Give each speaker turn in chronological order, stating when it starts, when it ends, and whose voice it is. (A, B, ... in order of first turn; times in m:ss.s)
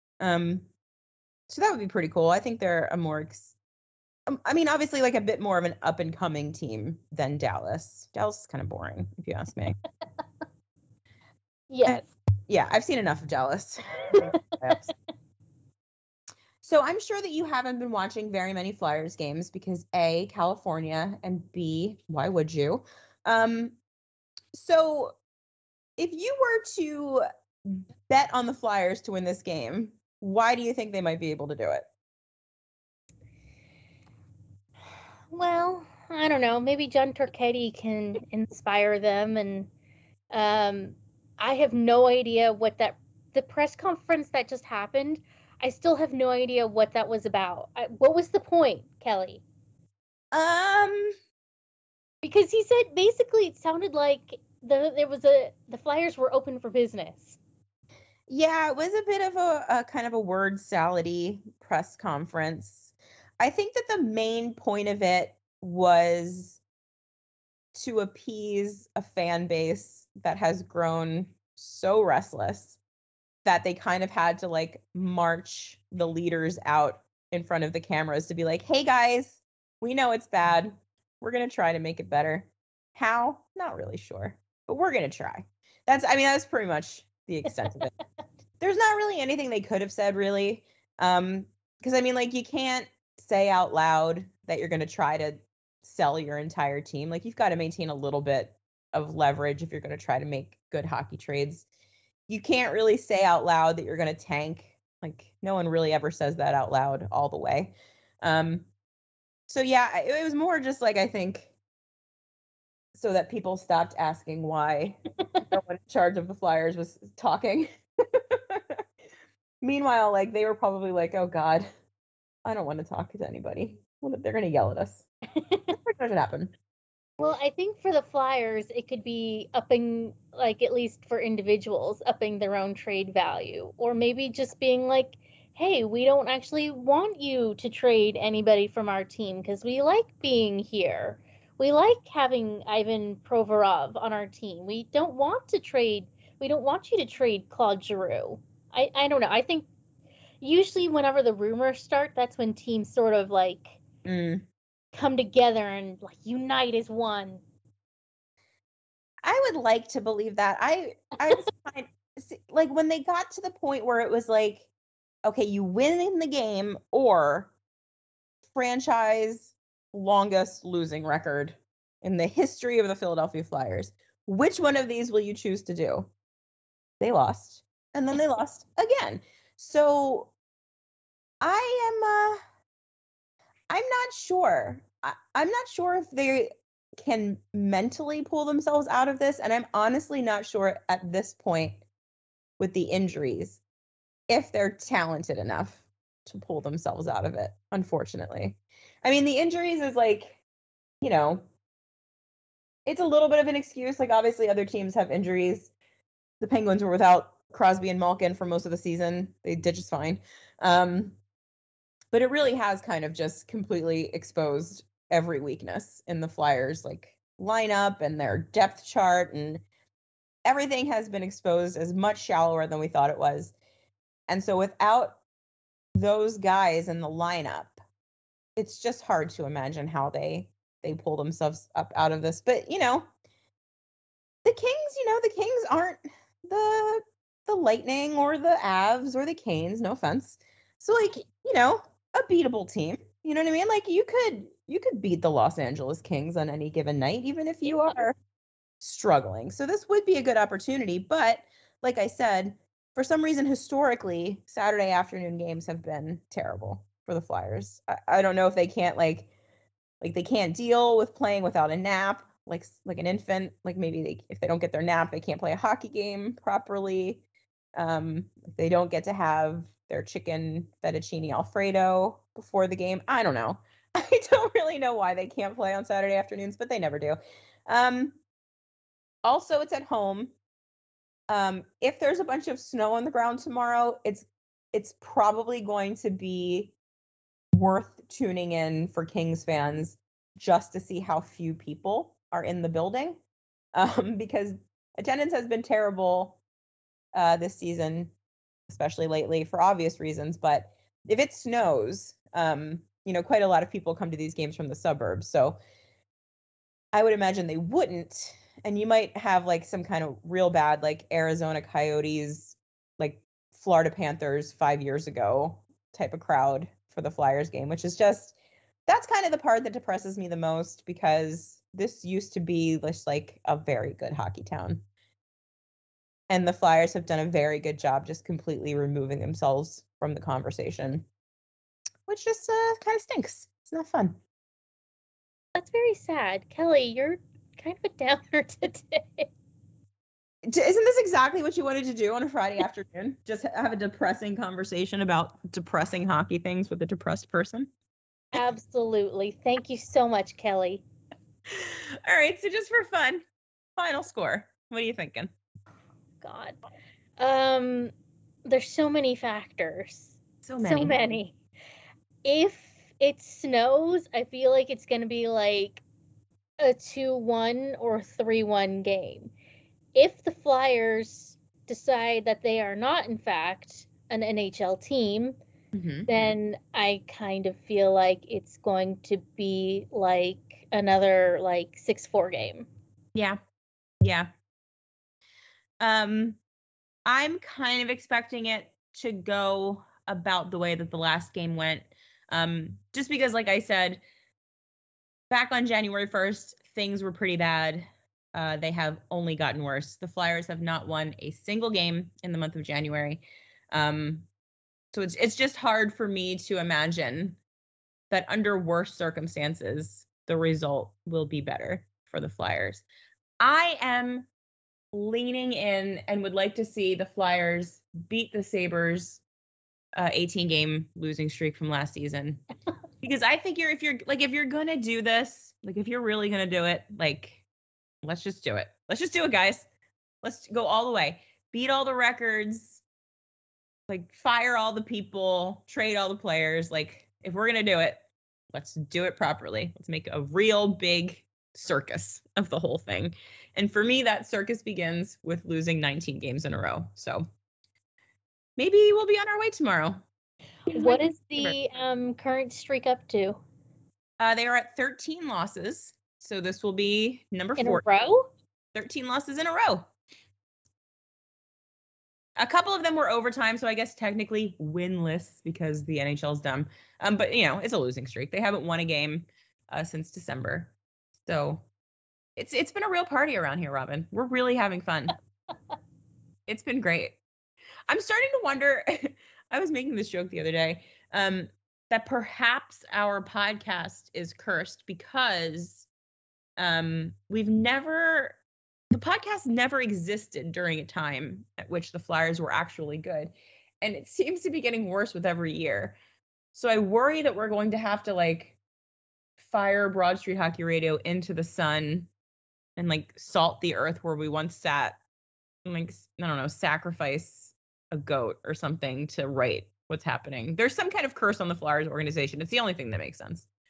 0:00.2-0:00.7 A
0:01.5-0:03.6 A
0:04.3-0:09.8 A
0:11.7-0:12.1 B
0:11.8-0:14.9 A
0:14.1-0:14.9 B
0:16.6-0:23.8 A
0:24.5-0:25.2 A
0:26.0-0:31.9 A
0:35.3-0:39.7 B
0:40.3-0:49.4 B
0:50.3-0:51.1 A
0:52.2-0:57.4 B
0:58.3-1:06.6 A
1:07.7-1:12.8 A
1:13.4-1:27.9 A
1:28.6-1:41.6 A
1:42.3-1:48.7 A
1:49.5-1:51.5 A
1:53.0-1:58.8 A
1:59.6-2:01.6 A
2:02.5-2:05.0 A
2:05.4-2:05.7 B
2:05.7-2:06.5 A
2:07.2-2:29.7 B
2:30.4-2:33.8 B
2:34.0-2:34.5 A
2:34.9-2:37.4 B
2:39.2-2:44.7 A
2:45.2-2:47.5 A
2:48.5-2:56.1 A
2:57.0-3:00.3 A
3:01.4-3:02.4 A
3:03.7-3:11.8 A
3:12.6-3:13.6 A
3:14.3-3:20.4 A
3:21.0-3:21.4 A
3:22.9-3:25.7 A
3:26.4-3:31.2 A
3:32.1-3:39.6 A
3:40.5-3:43.5 A
3:44.3-3:45.2 A
3:46.0-3:47.8 A
3:48.6-3:53.1 A
3:54.4-4:08.2 A
4:08.8-4:19.3 A
4:20.0-4:27.2 A
4:27.8-4:38.2 A
4:39.2-4:40.3 A
4:41.3-4:46.7 A
4:47.5-4:53.2 A
4:53.8-4:56.4 A
4:57.1-4:58.1 A
4:58.7-5:05.6 A
5:06.9-5:18.4 A
5:18.9-5:24.8 A
5:26.3-5:31.0 A
5:32.1-5:34.2 A
5:35.6-5:39.3 B
5:40.4-5:47.7 A
5:48.3-5:50.8 B
5:51.5-5:53.2 A
5:53.8-5:55.3 A
5:56.2-5:56.6 B
5:57.2-5:57.9 B
5:58.5-6:01.4 B
6:00.4-6:01.0 A
6:02.2-6:05.8 B
6:06.6-6:09.3 B
6:10.0-6:15.4 B
6:15.7-6:16.4 A
6:16.1-6:22.7 B
6:24.0-6:24.3 A
6:25.8-6:26.4 A
6:27.1-6:34.0 A
6:35.3-6:44.3 A
6:44.9-6:47.4 A
6:48.1-6:52.8 A
6:53.4-6:54.3 A
6:54.9-6:59.2 A
7:00.0-7:02.4 A
7:03.0-7:07.4 A
7:08.0-7:09.6 A
7:10.2-7:12.8 A
7:13.9-7:27.2 A
7:28.6-7:30.0 A
7:30.7-7:33.4 B
7:30.7-7:31.6 A
7:34.2-7:37.8 A
7:37.6-7:38.3 B
7:38.7-7:39.9 A
7:42.4-7:51.6 A
7:52.4-7:55.2 A
7:56.5-7:57.2 A
7:57.9-8:05.9 A
8:06.6-8:08.4 A
8:08.9-8:16.0 A
8:16.5-8:18.6 A
8:19.4-8:22.1 A
8:22.8-8:25.0 A
8:25.6-8:33.5 A